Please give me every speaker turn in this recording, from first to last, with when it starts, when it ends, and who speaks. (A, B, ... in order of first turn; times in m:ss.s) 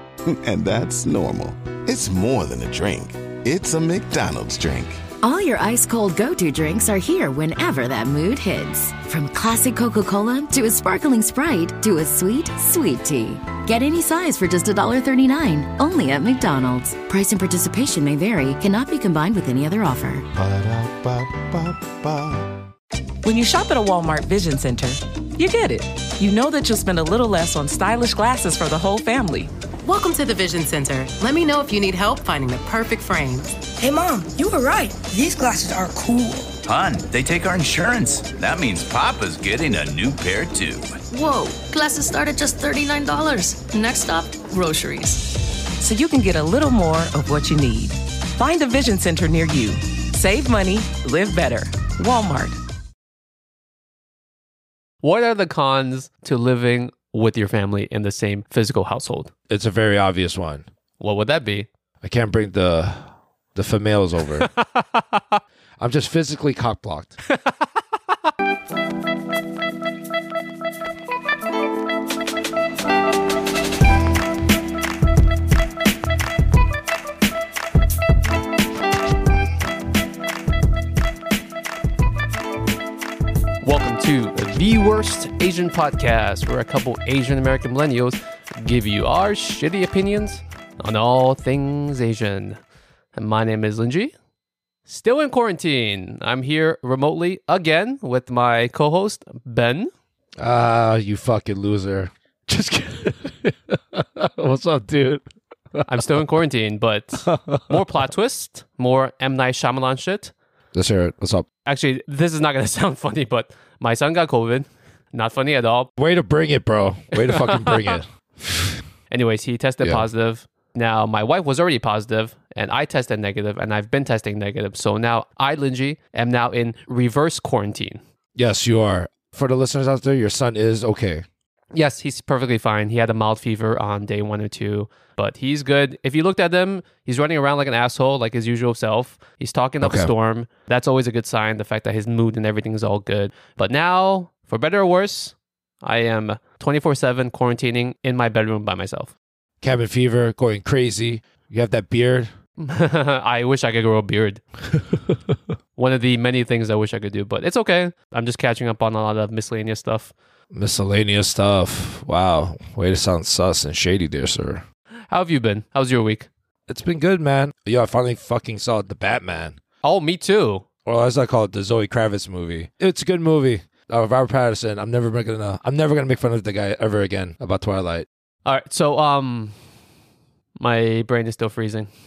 0:00.3-0:05.0 A
0:05.2-0:20.3 B
0:20.4-0:22.5 A
0:23.2-0:29.5 C
0:29.8-0:33.6 D
0:33.6-0:36.6 E
0:36.6-0:41.0 F
0:41.1-0:45.4 G
0:45.8-0:52.6 C
0:55.0-0:59.3 H
0:59.5-1:00.7 I
1:01.0-1:01.7 H
1:02.0-1:04.5 I
1:04.4-1:05.4 H
1:05.8-1:07.2 I
1:23.6-1:32.6 H
1:33.2-1:34.1 H
1:34.9-1:39.9 H
1:40.4-1:45.2 I
1:45.9-1:50.3 H
1:47.3-1:47.8 I
1:50.7-1:51.5 I
1:51.7-1:55.9 H
1:56.0-1:58.8 I
1:57.3-1:58.0 H
1:59.1-2:08.0 H
2:08.4-2:11.3 I
2:11.7-2:29.1 H
2:19.8-2:20.1 I
2:29.6-2:32.3 I
2:32.6-2:34.4 H
2:35.8-2:40.1 H
2:40.5-2:44.6 I
2:45.1-2:46.3 H
2:46.7-2:49.6 I
2:49.8-2:50.6 H
2:50.8-2:58.1 I
2:58.4-2:59.6 H
3:00.6-3:01.9 H